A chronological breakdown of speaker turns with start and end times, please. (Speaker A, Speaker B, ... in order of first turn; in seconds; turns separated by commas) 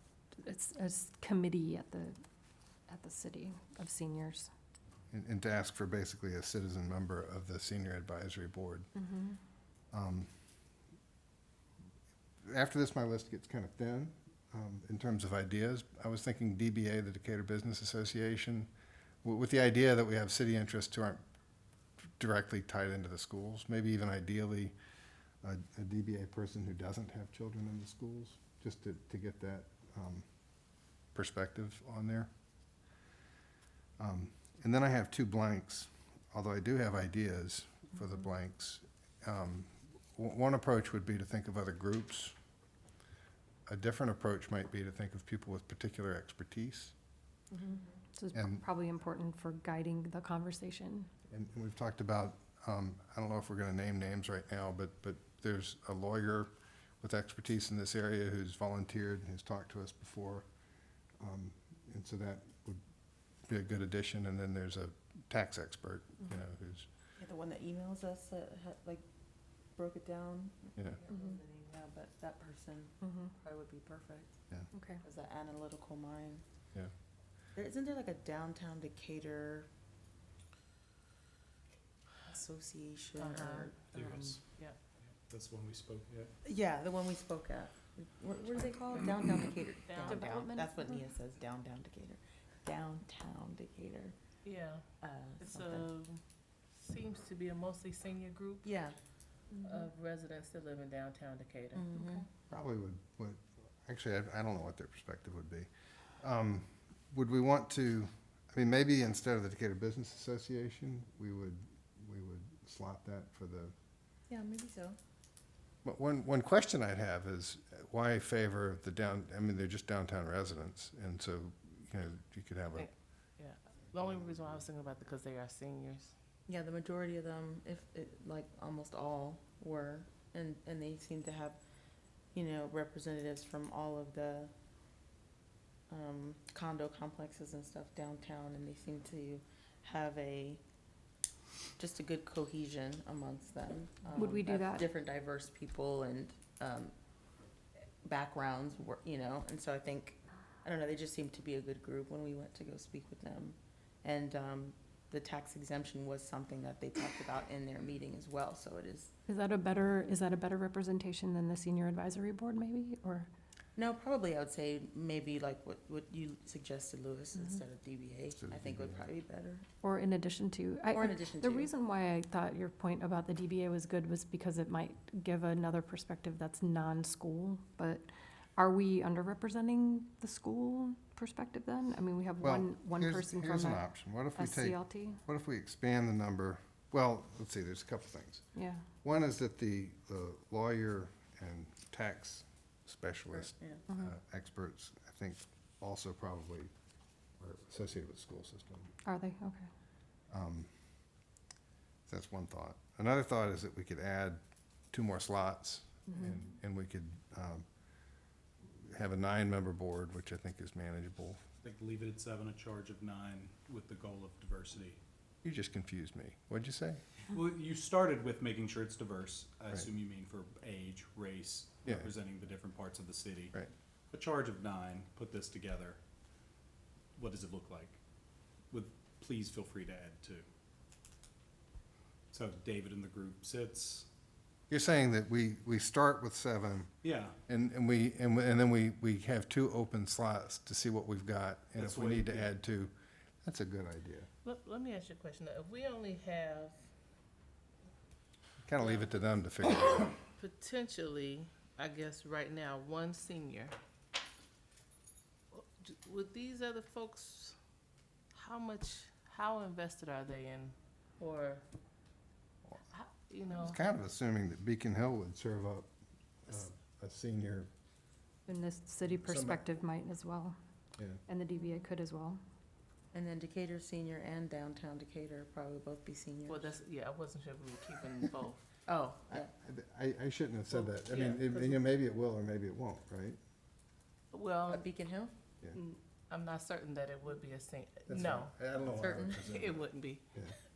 Speaker A: 0.4-2.2, Speaker A: 2.9-4.5, Speaker B: 5.1-8.9, Speaker A: 9.0-9.4, Speaker B: 9.9-10.3, Speaker B: 12.4-18.7, Speaker B: 19.2-21.2, Speaker B: 22.2-24.8, Speaker B: 25.4-30.3, Speaker B: 31.1-32.3, Speaker B: 34.0-42.4, Speaker B: 43.7-47.0, Speaker C: 47.5-47.8, Speaker A: 47.6-51.1, Speaker B: 48.4-48.6, Speaker B: 51.3-60.5, Speaker B: 61.2-62.8, Speaker B: 63.5-66.9, Speaker C: 67.2-69.0, Speaker C: 69.8-74.3, Speaker A: 73.0-73.3, Speaker A: 74.7-75.0, Speaker C: 75.0-76.4, Speaker C: 77.5-79.7, Speaker C: 82.2-84.3, Speaker D: 83.2-84.8, Speaker E: 83.9-84.4, Speaker E: 85.1-86.3, Speaker C: 86.5-94.2, Speaker D: 89.9-90.2, Speaker A: 90.1-91.0, Speaker D: 94.5-94.8, Speaker C: 95.0-95.9, Speaker D: 95.4-96.2, Speaker D: 96.7-98.7, Speaker C: 98.6-99.0, Speaker D: 99.6-101.9, Speaker C: 101.7-102.3, Speaker B: 102.5-113.7, Speaker C: 114.3-115.0, Speaker B: 115.8-122.9, Speaker D: 122.8-126.2, Speaker C: 126.5-131.6, Speaker C: 132.3-134.5, Speaker C: 135.9-140.6, Speaker C: 141.8-146.9, Speaker A: 144.2-144.9, Speaker C: 148.0-159.1, Speaker A: 159.3-163.3, Speaker C: 163.8-169.7, Speaker B: 168.4-169.1, Speaker A: 169.8-185.2, Speaker C: 170.9-171.7, Speaker B: 182.4-188.5, Speaker A: 188.5-188.8, Speaker B: 189.0-196.7, Speaker C: 193.5-193.8, Speaker B: 197.4-198.9, Speaker A: 199.1-199.7, Speaker B: 200.3-200.7, Speaker B: 202.1-207.7, Speaker B: 208.7-211.5, Speaker E: 211.6-215.0, Speaker B: 215.4-217.0, Speaker E: 217.3-223.6, Speaker E: 224.1-226.0, Speaker E: 227.2-228.0, Speaker E: 228.7-230.5, Speaker E: 232.3-234.1, Speaker B: 234.7-236.9, Speaker E: 237.0-237.4, Speaker B: 237.5-244.3, Speaker E: 241.8-242.5, Speaker D: 244.4-246.8, Speaker B: 248.6-250.2, Speaker D: 248.8-249.2, Speaker D: 250.3-253.8, Speaker D: 255.5-257.6, Speaker D: 258.3-261.6, Speaker D: 262.9-263.8, Speaker B: 263.6-265.9, Speaker B: 266.4-267.7, Speaker A: 268.5-270.6, Speaker B: 269.1-269.6, Speaker A: 271.3-272.4, Speaker C: 273.1-276.8, Speaker D: 276.5-278.7, Speaker C: 278.9-279.5, Speaker B: 279.6-283.4, Speaker D: 280.9-281.6, Speaker D: 284.3-284.9, Speaker C: 284.7-285.3, Speaker D: 285.7-288.6, Speaker B: 288.1-290.6, Speaker C: 289.0-289.5, Speaker D: 289.3-290.3